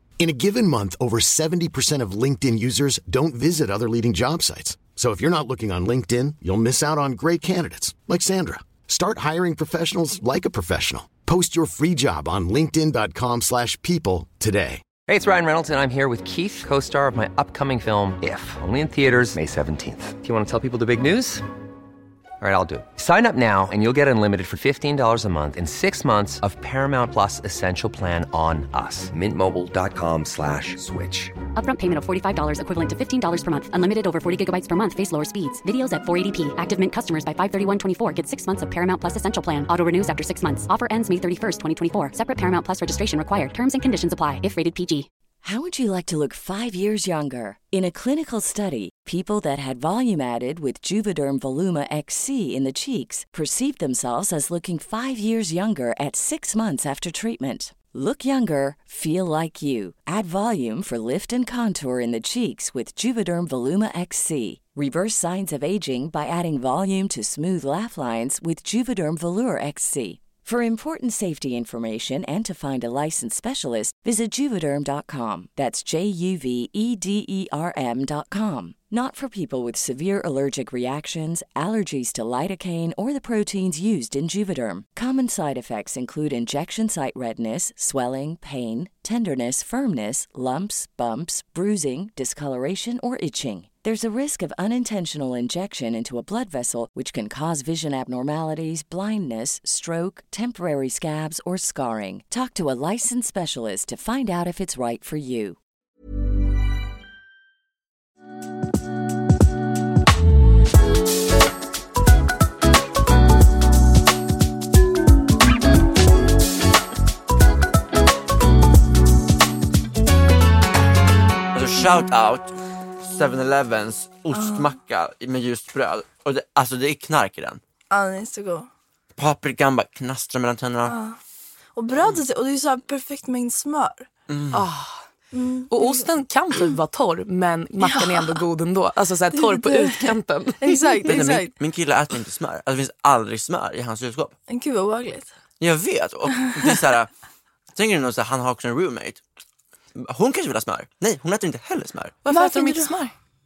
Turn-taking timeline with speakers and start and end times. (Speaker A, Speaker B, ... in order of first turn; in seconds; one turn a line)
Speaker A: 0.2-14.8
Speaker B: 15.1-21.4
Speaker B: 22.4-31.3
Speaker C: 31.6-45.1
Speaker D: 45.4-105.6
Speaker E: 121.5-127.6
Speaker F: 124.3-124.7
Speaker F: 127.9-128.7
Speaker E: 129.2-131.0
Speaker F: 130.8-131.2
Speaker F: 131.8-134.1
Speaker E: 134.3-134.7
Speaker G: 134.5-135.0
Speaker F: 135.3-136.1
Speaker G: 135.7-140.8
Speaker F: 137.8-138.4
Speaker F: 139.3-141.6
Speaker E: 141.1-144.3
Speaker F: 144.5-145.3
Speaker E: 145.6-147.1
Speaker E: 147.7-149.2
Speaker E: 149.9-152.2
Speaker G: 152.2-153.1
Speaker F: 152.3-153.0